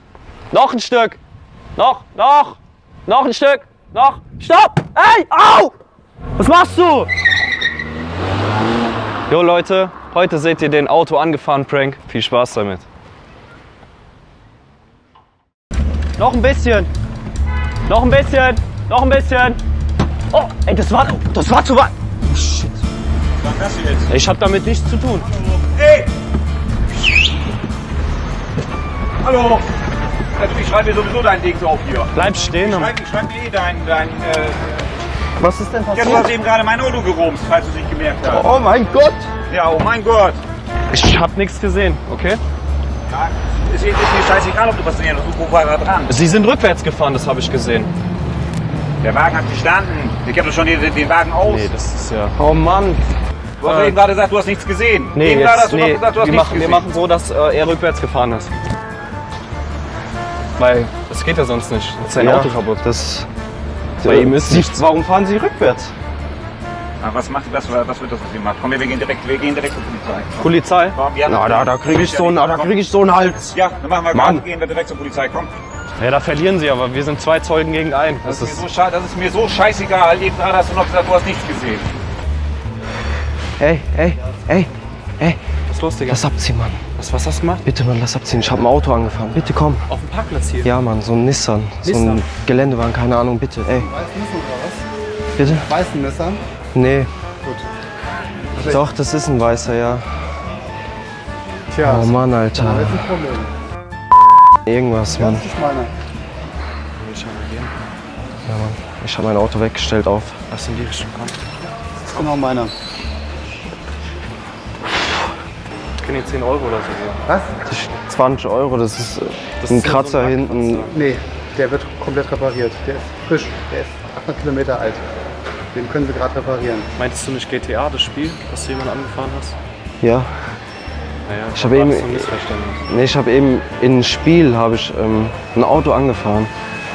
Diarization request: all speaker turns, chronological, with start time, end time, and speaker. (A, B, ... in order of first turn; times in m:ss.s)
0:00.5-0:01.2 A
0:01.8-0:05.7 A
0:06.4-0:07.1 A
0:09.3-0:12.8 A
0:16.2-0:16.9 A
0:17.9-0:19.6 A
0:20.3-0:22.7 A
0:23.4-0:24.1 B
0:24.1-0:25.3 A
0:25.2-0:26.1 B
0:29.2-0:29.6 B
0:30.4-0:34.9 B
0:32.1-0:32.9 A
0:35.4-0:36.3 C
0:35.9-0:38.5 B
0:38.2-0:39.3 C
0:39.5-0:40.4 B
0:40.9-0:42.4 A
0:43.1-0:46.1 B
0:46.1-0:47.9 A
0:49.0-0:51.7 B
0:51.4-0:52.3 A
0:52.4-0:53.0 C
0:53.6-0:56.9 B
0:53.6-0:54.0 A
0:55.1-0:58.5 A
1:00.6-1:02.8 A
1:02.1-1:03.3 C
1:04.0-1:05.9 C
1:04.0-1:04.9 A
1:07.0-1:12.8 B
1:10.4-1:10.9 A
1:11.3-1:13.5 C
1:13.5-1:15.5 B
1:14.1-1:14.4 C
1:16.0-1:18.6 A
1:18.2-1:21.8 B
1:23.6-1:25.4 C
1:25.7-1:26.3 A
1:26.1-1:26.8 C
1:27.0-1:27.6 A
1:27.6-1:29.9 C
1:29.9-1:30.7 A
1:30.6-1:33.9 C
1:31.8-1:32.2 A
1:33.6-1:34.8 D
1:35.4-1:35.7 C
1:35.6-1:36.4 D
1:36.7-1:37.1 C
1:38.6-1:38.8 D
1:38.6-1:40.1 C
1:41.7-1:43.5 D
1:41.8-1:43.0 C
1:44.6-1:45.5 C
1:45.1-1:45.9 D
1:47.0-1:47.7 A
1:48.4-1:50.4 C
1:50.5-1:51.4 A
1:52.1-1:52.7 D
1:56.0-1:57.2 A
1:57.3-1:57.5 D
1:57.6-2:00.9 C
1:59.6-2:01.0 A
2:00.9-2:05.0 D
2:05.7-2:06.9 D
2:07.0-2:09.6 A
2:10.0-2:10.3 C
2:11.2-2:12.8 A
2:11.5-2:12.3 C
2:12.9-2:16.5 C